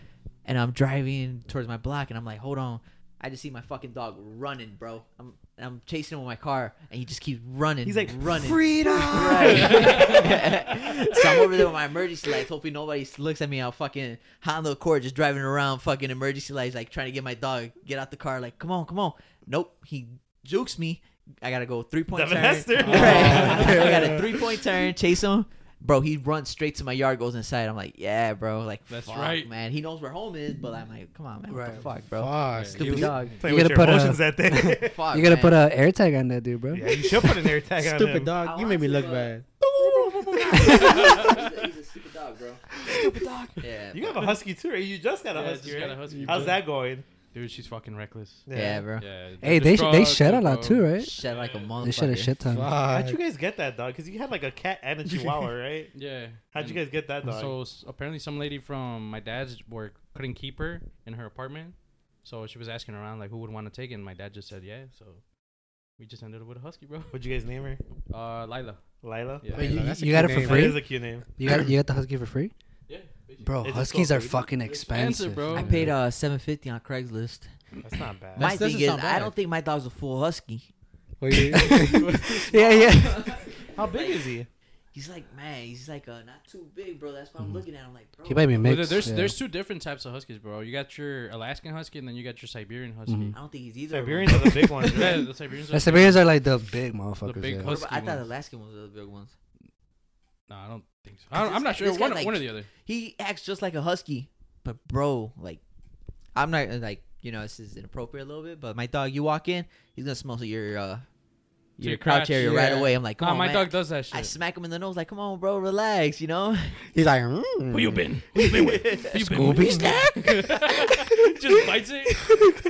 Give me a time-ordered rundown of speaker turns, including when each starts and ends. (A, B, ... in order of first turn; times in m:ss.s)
0:00.4-0:33.4 A
0:07.8-0:10.4 B
0:09.3-0:10.3 C
0:22.1-0:24.1 B
0:22.8-0:24.4 D
0:22.9-0:23.8 C
0:28.9-0:29.5 C
0:31.5-0:31.8 E
0:32.2-0:33.2 D
0:32.5-0:33.4 C
0:32.8-0:35.0 B
0:33.4-0:37.4 E
0:34.8-0:35.6 A
0:36.7-0:38.3 B
0:37.7-0:39.4 D
0:38.4-0:42.6 A
0:39.7-0:41.3 B
0:40.7-0:41.4 C
0:42.8-0:43.1 D
0:42.8-0:47.0 B
0:43.6-0:44.3 A
0:45.3-0:46.6 C
0:46.1-0:46.5 D
0:47.3-0:50.9 C
0:48.5-0:48.8 B
0:48.5-0:49.0 A
0:49.4-0:51.1 E
0:51.0-0:52.3 A
0:51.2-0:51.8 B
0:51.8-0:52.7 E
0:52.5-0:53.2 D
0:52.8-0:55.9 B
0:55.9-1:05.2 C
0:56.5-0:57.5 B
1:06.0-1:07.1 C
1:07.1-1:07.8 B
1:08.1-1:09.7 C
1:09.0-1:09.7 B
1:09.5-1:12.5 E
1:09.6-1:10.8 D
1:10.3-1:11.3 B
1:12.9-1:13.5 C
1:13.4-1:15.9 E
1:13.6-1:14.4 B
1:14.6-1:15.9 C
1:15.5-1:17.5 A
1:17.8-1:18.5 B
1:18.4-1:19.3 D
1:18.4-1:20.7 A
1:21.2-1:22.2 D
1:21.5-1:23.3 E
1:21.8-1:22.5 C
1:22.2-1:24.3 A
1:23.7-1:24.5 B
1:24.9-1:29.0 A
1:28.2-1:29.4 E
1:28.6-1:33.3 C
1:33.1-1:33.4 E
1:33.3-1:34.8 A
1:33.9-1:35.2 B
1:34.8-1:36.3 C
1:35.7-1:37.8 E
1:37.2-1:38.2 C
1:37.6-1:39.3 A
1:40.5-1:42.7 C
1:41.3-1:45.6 A
1:46.3-1:51.0 A
1:51.8-1:56.8 A
1:51.8-1:52.6 C
1:52.3-1:52.9 D
1:53.2-1:54.3 C
1:56.9-1:58.5 D
1:57.7-2:02.2 C
1:59.1-2:00.5 D